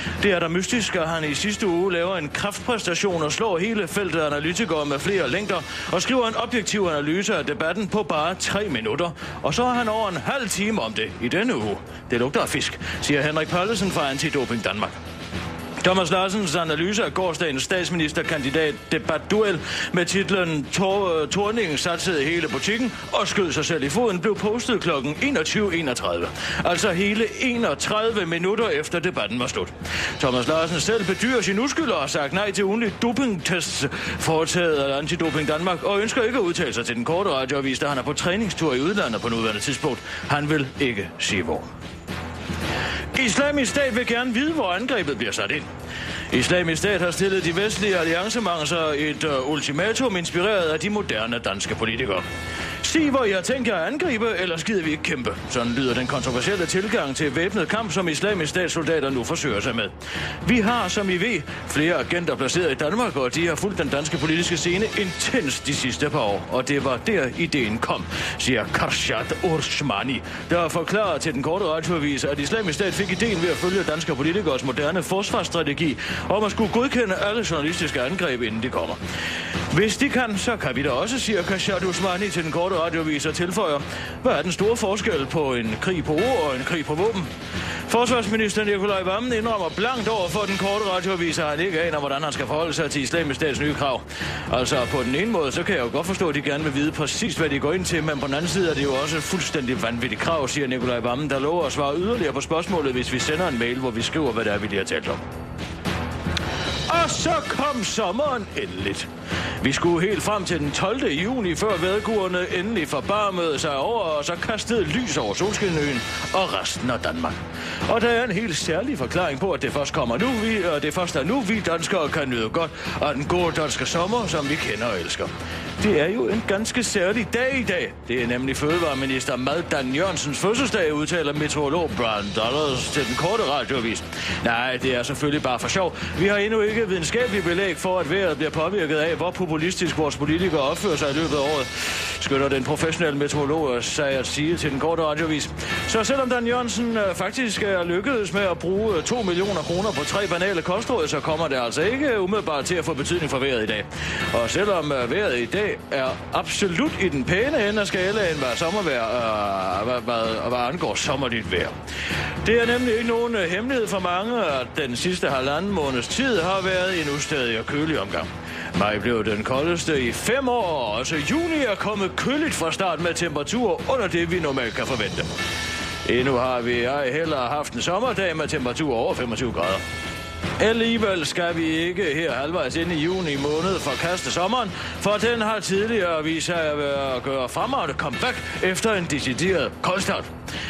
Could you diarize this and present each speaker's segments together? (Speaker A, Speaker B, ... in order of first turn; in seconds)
Speaker A: 0.2-15.0, 15.8-41.7, 43.1-45.7, 46.3-52.2, 52.8-79.0, 79.7-87.3, 87.9-105.2, 106.9-109.1, 109.6-161.7, 162.4-175.3, 176.0-179.8, 180.6-190.3